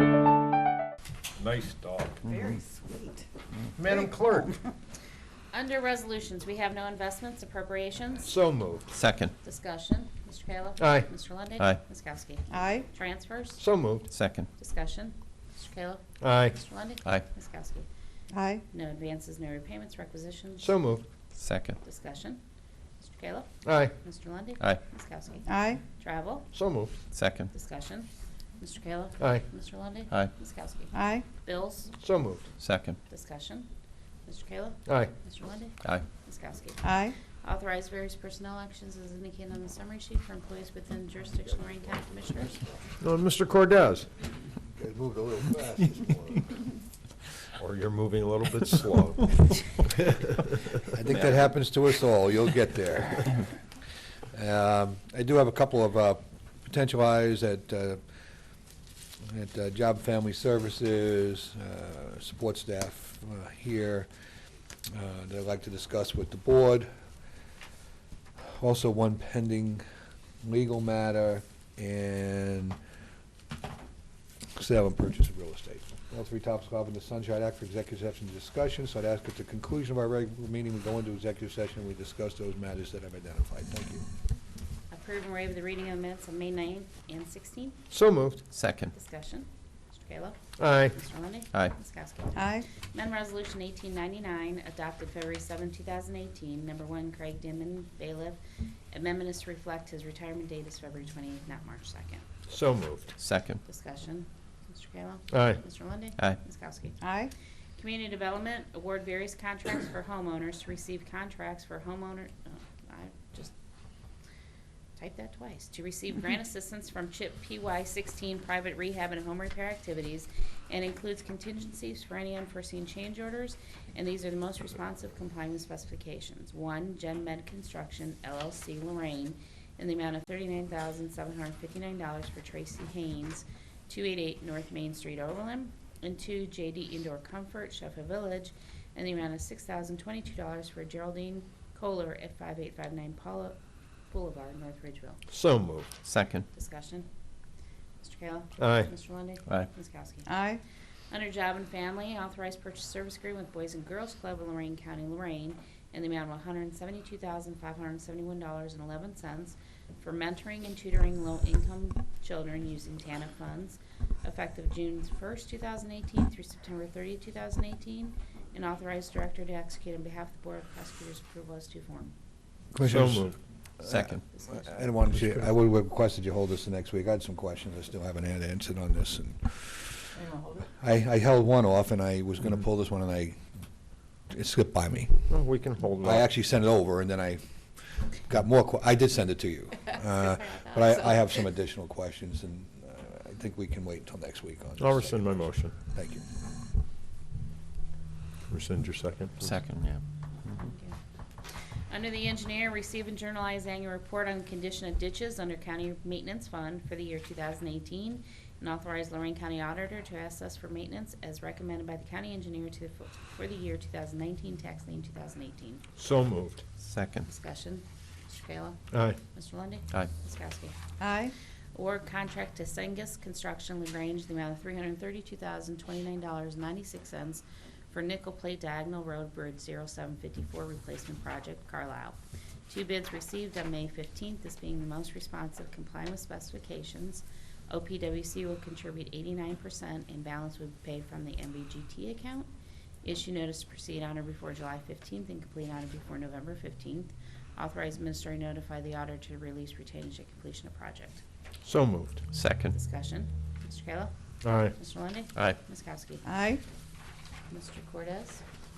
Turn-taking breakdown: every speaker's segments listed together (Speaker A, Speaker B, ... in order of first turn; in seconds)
Speaker A: 1.4-2.2, 3.8-4.6, 8.2-8.9, 10.8-11.1, 13.6-14.1, 16.2-16.6, 20.6-21.0, 23.6-23.9, 26.5-26.9, 29.2-29.4, 32.0-32.5, 34.9-35.1, 43.0-44.1, 47.6-50.8, 87.9-88.4, 90.6-91.0, 102.5-103.1, 105.3-105.6, 145.3-145.9, 148.6-148.9, 172.8-173.4, 185.3-186.3, 194.8-195.8, 198.5-199.6, 215.9-216.6, 218.9-219.2, 251.6-252.2, 254.4-254.7
Speaker B: 2.2-3.2, 12.5-12.8, 18.3-18.6, 25.5-25.8, 30.9-31.2, 36.8-37.1, 92.3-92.6, 107.0-107.3, 150.3-150.6, 221.0-221.3, 256.2-256.6
Speaker C: 5.5-8.3, 9.4-13.6, 14.5-17.9, 18.7-20.8, 21.8-22.4, 23.0-26.5, 27.5-31.9, 33.1-33.7, 34.2-42.6, 84.9-87.8, 88.9-102.2, 103.6-107.0, 107.8-113.5, 115.0-145.2, 146.5-147.1, 148.0-150.3, 151.1-172.1, 174.3-174.6, 200.5-201.0, 201.9-215.8, 217.2-220.8, 221.7-242.5, 243.0-251.2, 252.7-254.1, 254.7-256.2, 257.5-258.4
Speaker D: 8.9-9.3, 14.1-14.5, 21.4-21.8, 27.1-27.5, 32.6-33.0, 88.5-88.9, 103.2-103.6, 146.0-146.4, 173.8-174.2, 199.4-200.0, 216.9-217.2, 252.3-252.7
Speaker E: 44.6-46.5, 50.9-53.5, 54.3-58.0, 59.3-64.1, 64.9-66.9, 68.4-69.8, 70.4-72.8, 74.5-84.0, 172.7-180.1, 180.8-183.4, 184.3-185.3, 186.0-187.4, 188.2-196.2